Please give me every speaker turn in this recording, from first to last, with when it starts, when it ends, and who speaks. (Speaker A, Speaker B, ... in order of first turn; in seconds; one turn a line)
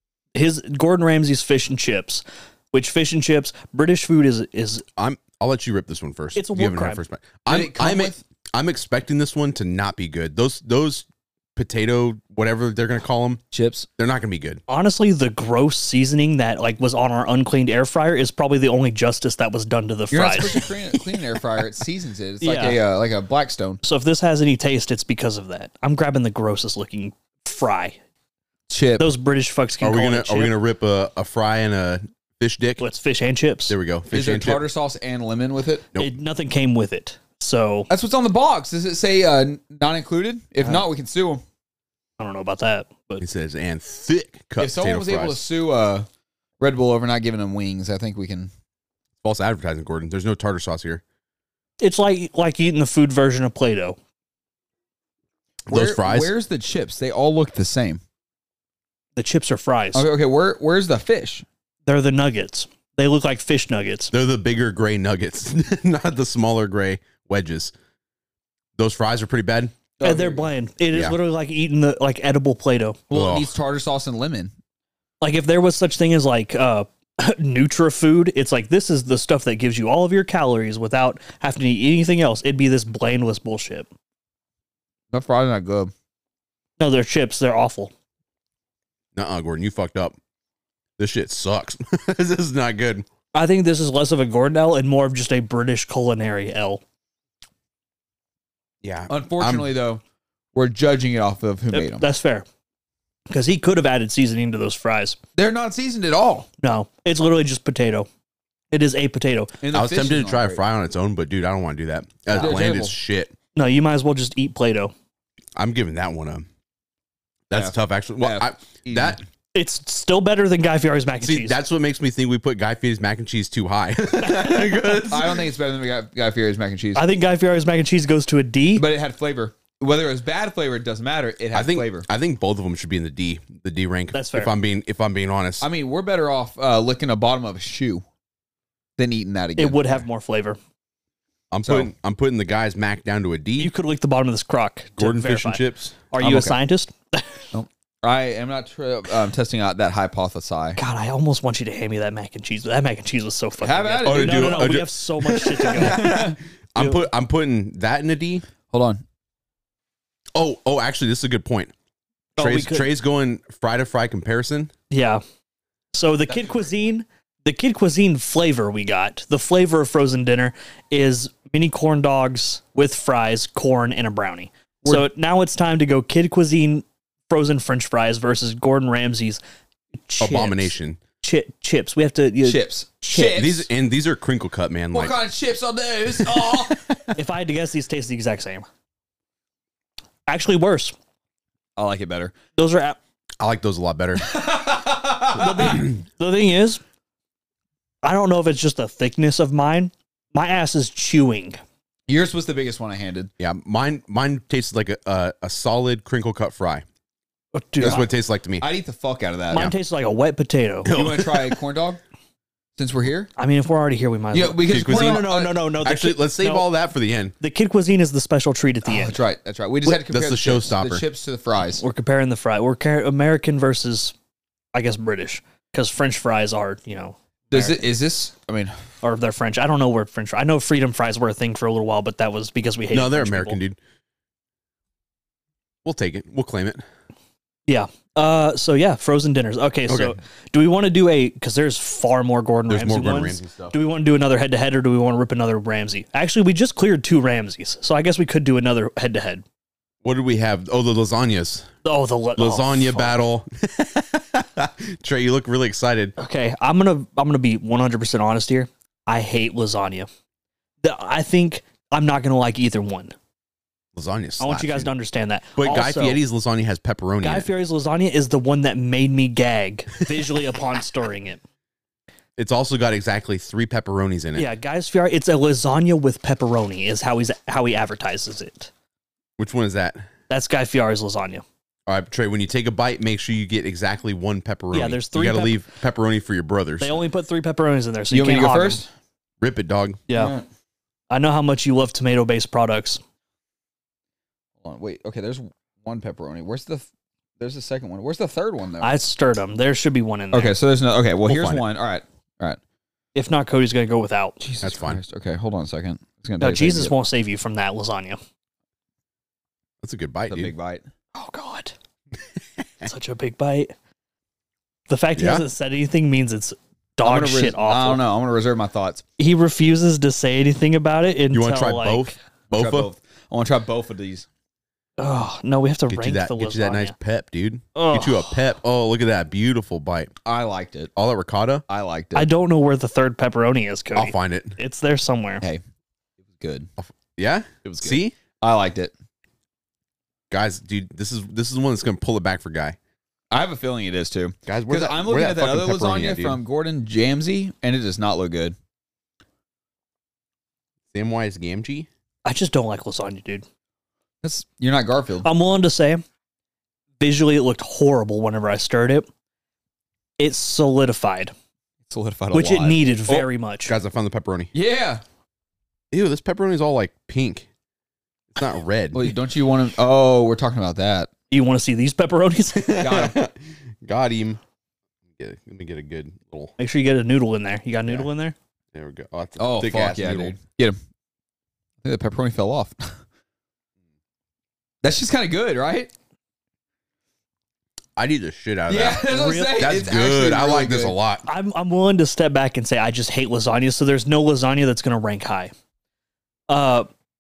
Speaker A: 0.4-4.8
Speaker B: 5.0-13.4
Speaker A: 6.3-7.0
Speaker C: 7.5-8.2
Speaker C: 13.5-13.9
Speaker B: 14.0-14.6
Speaker A: 14.7-20.7
Speaker C: 20.1-23.8
Speaker A: 22.4-22.8
Speaker A: 23.8-28.0
Speaker C: 28.7-29.1
Speaker A: 29.0-30.5
Speaker B: 29.8-32.8
Speaker A: 32.8-33.8
Speaker B: 33.7-34.6
Speaker C: 34.1-35.9
Speaker A: 36.0-37.9
Speaker C: 37.9-41.4
Speaker A: 42.2-43.2
Speaker B: 43.2-45.4
Speaker C: 44.6-46.1
Speaker C: 46.6-48.5
Speaker B: 49.2-51.0
Speaker A: 51.8-54.0
Speaker B: 55.7-56.3
Speaker C: 55.7-58.0
Speaker A: 59.2-60.1
Speaker C: 60.0-61.5
Speaker A: 61.9-64.1
Speaker B: 64.1-67.7
Speaker B: 68.8-69.8
Speaker C: 70.0-70.5
Speaker A: 70.0-73.0
Speaker C: 73.1-74.5
Speaker B: 73.1-73.5
Speaker A: 75.2-83.9
Speaker C: 85.1-85.9
Speaker A: 86.8-87.9
Speaker B: 89.2-90.2
Speaker B: 91.0-93.0
Speaker A: 93.3-96.8
Speaker B: 98.8-99.7
Speaker C: 99.1-100.0
Speaker C: 100.5-102.1
Speaker A: 101.7-102.5
Speaker A: 103.3-105.2
Speaker C: 105.4-106.5
Speaker A: 106.6-108.1
Speaker A: 108.7-109.5
Speaker C: 109.6-110.6
Speaker B: 109.7-113.3
Speaker C: 112.3-113.0
Speaker A: 113.5-114.9
Speaker B: 115.6-116.5
Speaker B: 117.5-119.2
Speaker C: 117.5-119.2
Speaker A: 119.5-121.6
Speaker B: 121.2-125.5
Speaker A: 124.2-124.7
Speaker C: 125.1-127.1
Speaker A: 127.0-128.8
Speaker C: 128.8-132.1
Speaker B: 131.5-135.7
Speaker A: 134.1-134.5
Speaker C: 135.6-138.0
Speaker C: 139.0-140.0
Speaker A: 139.6-140.6
Speaker B: 141.5-143.7
Speaker C: 141.7-141.9
Speaker A: 143.6-147.4
Speaker B: 145.0-146.0
Speaker C: 146.2-146.6
Speaker C: 147.5-150.8
Speaker A: 150.8-156.2
Speaker C: 153.6-154.7
Speaker B: 154.0-158.4
Speaker C: 155.8-156.4
Speaker A: 156.8-157.1
Speaker C: 158.7-159.0
Speaker B: 160.3-161.7
Speaker A: 162.4-162.9
Speaker B: 162.4-164.7
Speaker A: 164.9-165.2
Speaker A: 165.9-179.4
Speaker A: 180.0-183.4
Speaker B: 180.2-181.0
Speaker C: 182.4-183.7
Speaker B: 183.3-185.2
Speaker C: 184.9-187.0
Speaker B: 186.2-187.0
Speaker A: 187.2-188.7
Speaker A: 190.3-190.9
Speaker C: 191.8-192.3
Speaker A: 192.6-193.0
Speaker B: 193.4-194.3
Speaker C: 194.2-195.8
Speaker A: 195.3-196.8
Speaker B: 195.6-195.9
Speaker A: 198.0-201.6
Speaker C: 202.1-203.3
Speaker B: 203.4-206.8
Speaker A: 207.5-208.1
Speaker C: 207.8-208.1
Speaker B: 207.8-208.7
Speaker C: 208.6-209.7
Speaker A: 209.5-210.9
Speaker B: 210.8-211.6
Speaker C: 210.9-212.0
Speaker C: 212.8-213.3
Speaker A: 213.4-216.7
Speaker C: 214.3-215.6
Speaker B: 214.7-215.3
Speaker B: 215.8-217.3
Speaker A: 217.4-219.2
Speaker C: 218.8-221.8
Speaker B: 219.8-221.0
Speaker A: 221.8-224.1
Speaker A: 224.7-227.9
Speaker C: 227.5-228.8
Speaker A: 229.0-233.6
Speaker B: 232.9-233.8
Speaker B: 235.8-236.8
Speaker A: 237.7-249.4
Speaker B: 239.9-240.2
Speaker B: 242.7-243.8
Speaker B: 250.0-251.7
Speaker A: 251.8-253.2
Speaker B: 252.4-256.1
Speaker A: 256.2-260.1
Speaker A: 260.8-263.1
Speaker B: 263.9-264.9
Speaker A: 264.4-266.2
Speaker B: 265.6-267.5
Speaker A: 267.2-271.4
Speaker B: 272.4-274.5
Speaker A: 274.4-278.7
Speaker B: 279.4-280.0
Speaker A: 280.3-281.4
Speaker B: 281.9-287.0
Speaker A: 284.7-285.6
Speaker A: 286.8-288.8
Speaker C: 288.1-288.9
Speaker B: 289.4-290.0
Speaker A: 290.1-290.4
Speaker C: 290.1-290.4
Speaker A: 291.1-293.0
Speaker C: 294.6-296.9
Speaker C: 297.4-298.9
Speaker A: 298.8-300.6
Speaker C: 300.3-302.6
Speaker B: 301.3-301.6
Speaker A: 303.1-304.4
Speaker C: 304.4-306.9
Speaker B: 304.6-305.0
Speaker A: 306.4-308.2
Speaker B: 309.8-310.5
Speaker C: 310.3-310.8
Speaker A: 311.1-311.7
Speaker A: 312.8-313.7
Speaker A: 314.9-318.0
Speaker B: 315.2-315.4
Speaker C: 317.0-319.0
Speaker A: 319.2-322.1
Speaker B: 321.3-322.9
Speaker C: 322.5-324.3
Speaker A: 325.0-326.9
Speaker B: 325.9-330.1
Speaker A: 327.8-328.4
Speaker C: 330.2-330.9
Speaker B: 331.0-331.6
Speaker C: 331.7-332.3
Speaker A: 332.1-335.4
Speaker B: 333.9-334.6
Speaker C: 336.4-336.7
Speaker B: 336.8-338.1
Speaker C: 337.7-338.9
Speaker B: 340.3-342.8
Speaker C: 343.3-348.6
Speaker B: 344.5-346.4
Speaker B: 350.9-351.9
Speaker A: 352.2-353.4
Speaker C: 354.2-355.3
Speaker A: 355.2-356.0
Speaker A: 357.0-359.1
Speaker A: 360.2-361.3
Speaker C: 361.9-363.3
Speaker A: 362.3-363.7
Speaker B: 363.7-364.5
Speaker C: 364.5-365.0
Speaker B: 365.9-367.5
Speaker B: 368.4-369.1
Speaker C: 368.9-371.1
Speaker A: 371.3-373.1
Speaker B: 372.6-374.4
Speaker C: 372.8-373.2
Speaker B: 375.2-376.5
Speaker A: 376.6-378.4
Speaker B: 378.7-380.4
Speaker C: 379.4-380.8
Speaker C: 381.8-383.0
Speaker C: 384.8-385.9
Speaker B: 388.0-391.3
Speaker C: 388.7-391.0
Speaker A: 389.1-389.7
Speaker A: 391.2-395.5
Speaker A: 396.5-396.9